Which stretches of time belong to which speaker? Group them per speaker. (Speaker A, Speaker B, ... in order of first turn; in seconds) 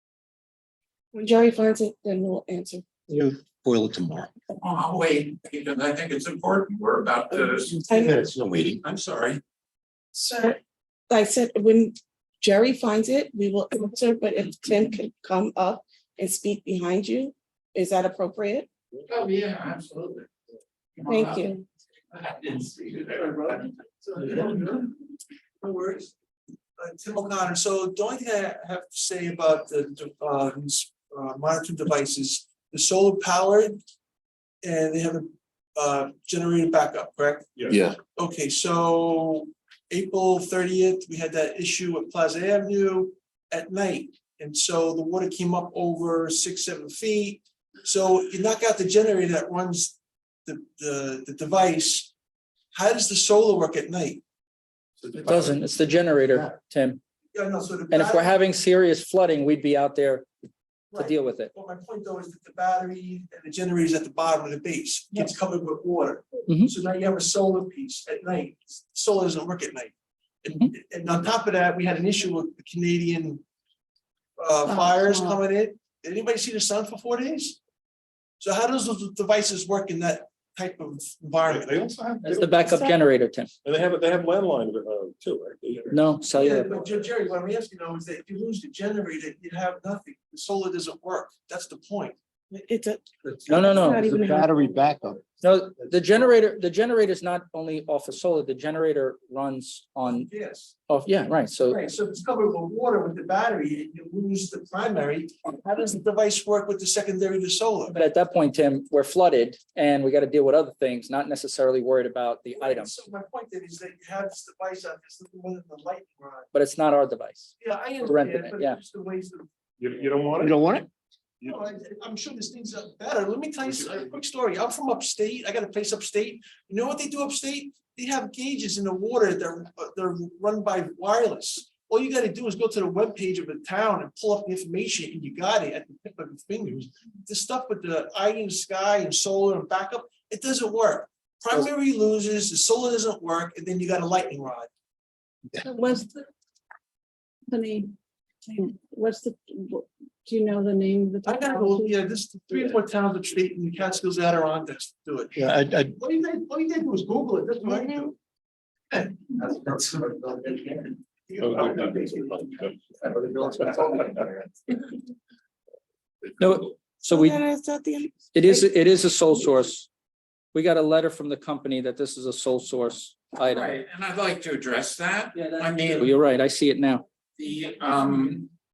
Speaker A: 1.1-2.9, 7.9-8.2, 10.1-18.7, 21.0-21.6, 82.6-82.9, 92.5-93.1, 93.7-94.6, 167.0-168.6
Speaker B: 3.1-4.3, 8.0-8.8, 37.7-38.0, 93.3-95.2, 120.4-120.8, 155.3-155.9
Speaker C: 4.6-8.1, 8.7-9.4, 19.1-20.3, 20.9-21.4, 22.1-23.6, 173.4-176.1, 177.3-178.5
Speaker D: 24.0-24.9, 25.6-26.1, 26.8-33.8, 34.6-37.5, 38.1-52.1, 52.7-54.2, 57.3-58.3, 60.9-73.4, 74.4-77.6, 78.4-81.7, 86.4-92.2, 100.0-100.8, 101.6-108.0, 112.5-116.5, 117.6-119.5, 121.4-144.7, 151.2-155.4, 155.9-158.2, 158.9-164.2
Speaker E: 37.5-37.8, 81.4-82.6, 83.6-86.1, 119.8-120.6, 161.4-161.8
Speaker F: 55.2-57.0, 57.9-60.3, 61.0-61.5, 82.2-83.5, 85.9-86.8, 93.5-94.1, 95.4-100.3, 100.9-101.8, 107.9-113.0, 116.5-118.8, 166.4-167.4, 168.3-169.9, 170.5-173.8, 175.3-177.1
Speaker G: 74.7-75.4, 145.7-146.2, 147.5-147.9, 148.5-151.9